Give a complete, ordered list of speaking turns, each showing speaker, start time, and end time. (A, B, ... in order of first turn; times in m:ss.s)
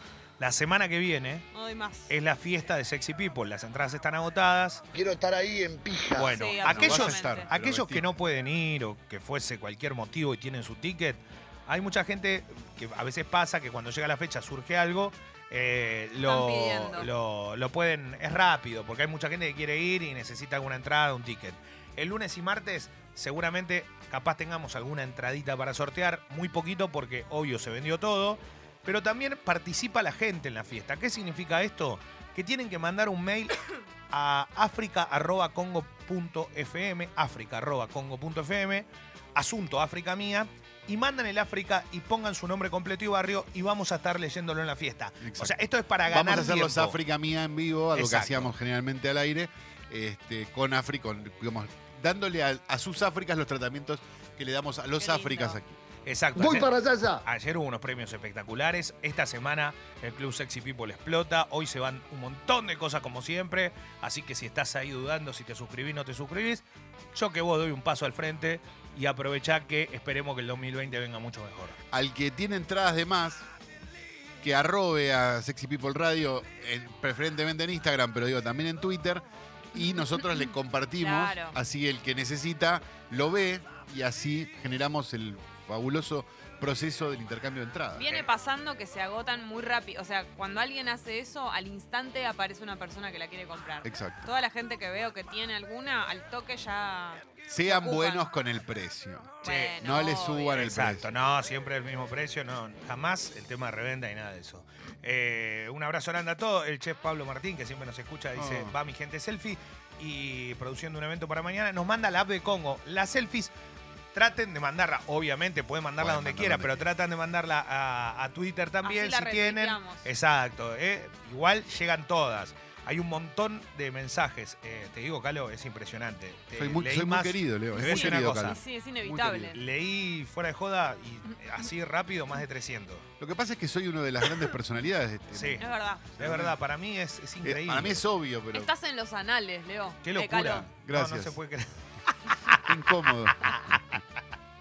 0:00.4-0:01.5 A
0:01.5-0:02.1 B
0:02.1-0:04.8 A
0:04.9-0:06.4 C
0:06.1-0:47.0 A
0:06.2-0:07.5 B
0:06.6-0:08.1 D
0:16.3-0:17.1 B
0:45.2-0:55.8 D
0:47.9-0:48.5 A
0:55.0-0:55.6 B
0:56.1-1:06.6 A
0:56.4-0:57.2 C
1:07.1-1:11.8 A
1:11.9-1:13.5 D
1:14.4-1:28.1 D
1:19.8-1:20.4 B
1:21.0-1:21.6 B
1:28.0-1:38.3 B
1:33.8-1:34.3 D
1:37.5-1:41.1 D
1:39.4-1:39.8 A
1:39.4-1:40.6 B
1:40.5-1:53.5 A
1:48.4-1:48.8 D
1:54.1-2:08.6 A
1:56.0-1:56.9 D
1:58.8-2:00.1 B
2:06.5-2:09.6 D
2:07.8-2:09.6 B
2:09.6-2:13.1 A
2:13.2-2:16.6 D
2:15.3-2:15.6 A
2:15.6-2:16.0 B
2:16.2-2:18.0 A
2:17.4-2:18.7 D
2:18.5-2:20.7 B
2:20.0-2:24.0 A
2:20.6-2:21.4 D
2:22.6-2:23.4 D